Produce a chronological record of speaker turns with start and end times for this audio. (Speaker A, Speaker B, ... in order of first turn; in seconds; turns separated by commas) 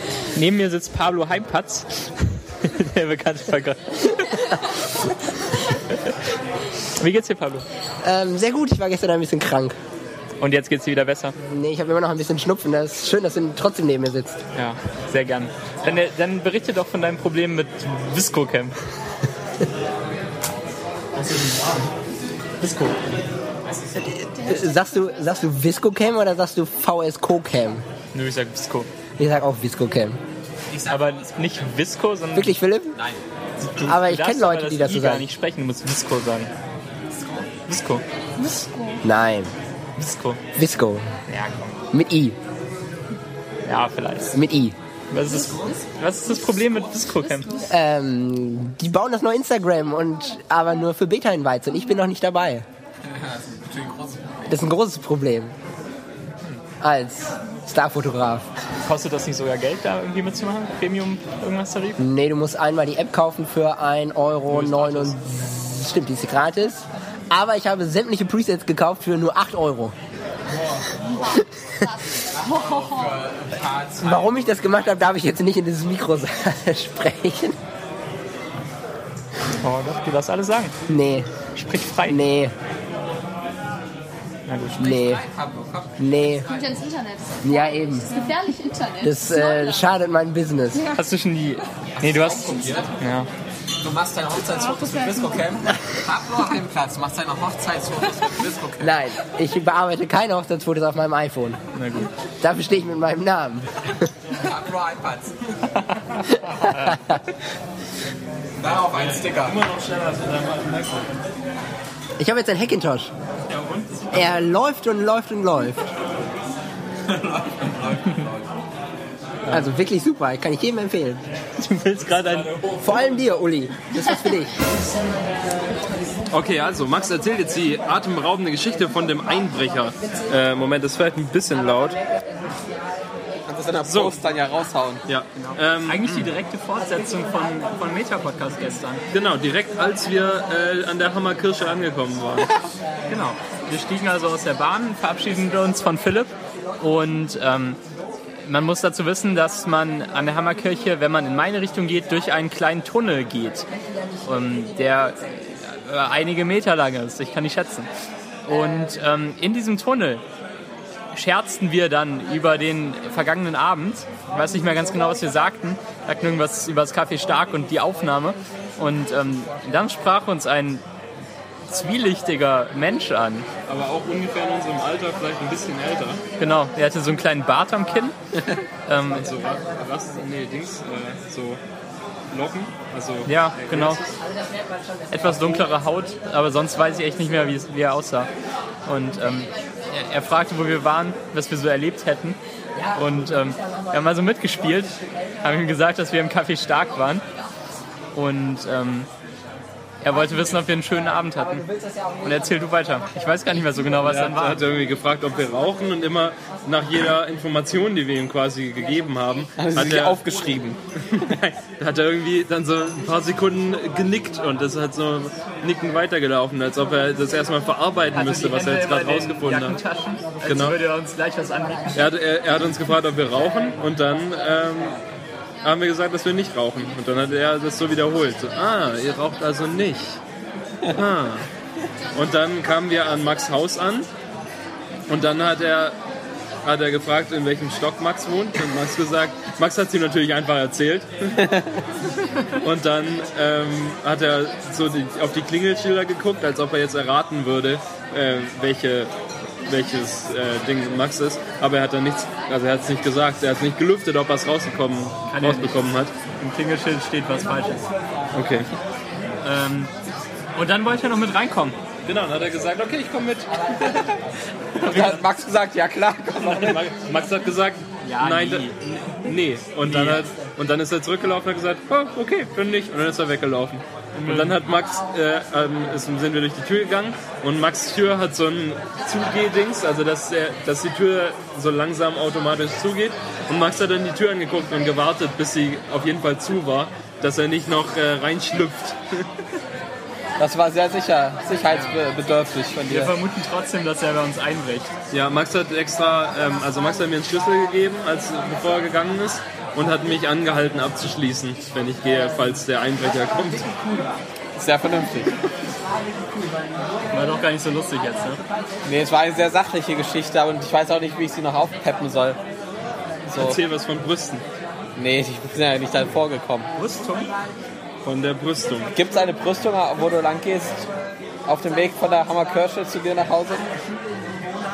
Speaker A: 0.3-4.5, Speaker A: 7.0-7.7, Speaker B: 8.0-9.8, Speaker A: 10.4-11.4, Speaker B: 11.5-14.4, Speaker A: 14.5-18.7, Speaker A: 21.2-21.8, Speaker A: 22.6-23.0, Speaker B: 24.0-27.8, Speaker A: 28.1-28.9, Speaker B: 29.2-30.2, Speaker C: 30.7-31.3, Speaker A: 30.9-32.6, Speaker B: 32.4-33.0, Speaker C: 33.0-33.2, Speaker A: 33.6-36.5, Speaker B: 33.8-35.3, Speaker C: 37.1-37.5, Speaker A: 37.7-38.0, Speaker D: 38.4-39.0, Speaker B: 39.0-39.5, Speaker A: 40.0-40.4, Speaker B: 40.6-41.0, Speaker A: 41.3-41.8, Speaker B: 41.9-42.4, Speaker A: 43.7-44.4, Speaker B: 44.3-44.8, Speaker A: 45.1-47.6, Speaker B: 47.6-52.6, Speaker C: 53.0-54.4, Speaker B: 54.5-55.5, Speaker B: 56.8-58.5, Speaker A: 58.9-62.0, Speaker B: 62.0-69.9, Speaker A: 64.5-65.1, Speaker B: 71.1-71.9, Speaker C: 72.3-74.9, Speaker B: 74.0-77.6, Speaker A: 79.6-80.7, Speaker B: 80.9-81.3, Speaker A: 81.5-82.2, Speaker B: 82.1-82.5, Speaker A: 84.5-85.0, Speaker B: 84.8-85.2, Speaker C: 84.8-86.9, Speaker B: 86.0-86.5, Speaker D: 86.8-87.4, Speaker B: 87.4-90.9, Speaker D: 88.2-89.0, Speaker A: 90.9-93.3, Speaker C: 92.0-93.0, Speaker C: 93.8-99.0, Speaker B: 98.8-101.6, Speaker A: 101.7-102.1, Speaker B: 102.4-104.1, Speaker C: 104.3-105.4, Speaker B: 106.3-107.2, Speaker C: 108.6-109.6, Speaker E: 108.9-111.2, Speaker B: 112.2-113.1, Speaker E: 113.5-114.2, Speaker B: 114.1-115.9, Speaker C: 117.0-118.5, Speaker A: 119.5-119.7, Speaker B: 119.5-121.2, Speaker A: 121.6-122.7, Speaker B: 122.8-124.6, Speaker E: 126.3-132.0, Speaker C: 133.5-135.1, Speaker E: 133.8-134.2, Speaker E: 135.1-136.3, Speaker A: 135.3-139.0, Speaker E: 139.1-142.5, Speaker A: 143.1-147.8, Speaker A: 148.4-153.7, Speaker A: 154.2-157.9, Speaker A: 158.5-160.2, Speaker A: 161.1-170.8, Speaker A: 171.7-173.5, Speaker E: 173.7-176.2, Speaker A: 176.4-178.2, Speaker A: 178.9-179.3, Speaker E: 179.1-181.6, Speaker E: 182.3-184.2, Speaker A: 183.3-184.0, Speaker A: 185.1-188.3, Speaker A: 188.9-192.4, Speaker A: 192.9-197.2, Speaker A: 198.1-199.1, Speaker A: 200.0-201.7, Speaker A: 202.2-204.7, Speaker E: 204.0-210.2, Speaker C: 209.6-210.8, Speaker E: 211.1-219.8, Speaker A: 218.1-222.1, Speaker E: 220.4-220.8, Speaker E: 221.9-225.0, Speaker E: 225.6-230.2, Speaker E: 230.9-231.5, Speaker E: 232.1-234.1, Speaker E: 235.1-236.0, Speaker E: 236.6-241.4, Speaker E: 242.5-249.1, Speaker E: 249.7-256.1, Speaker A: 255.3-255.8, Speaker A: 256.4-257.9, Speaker E: 258.3-258.7, Speaker A: 259.4-259.9, Speaker A: 260.6-261.8, Speaker E: 262.1-264.2, Speaker E: 264.8-265.3, Speaker C: 264.8-266.9, Speaker E: 266.4-289.4, Speaker A: 268.0-268.8, Speaker A: 269.9-270.3, Speaker A: 274.1-274.6, Speaker C: 290.4-293.1, Speaker A: 291.7-292.0, Speaker A: 292.9-294.9, Speaker E: 295.1-303.8, Speaker C: 304.6-305.5, Speaker A: 307.1-308.4, Speaker C: 308.9-312.4, Speaker C: 313.3-313.6, Speaker E: 313.4-314.4, Speaker C: 315.0-316.7, Speaker A: 316.8-317.3, Speaker E: 318.0-318.9, Speaker C: 318.9-320.9, Speaker C: 321.4-323.7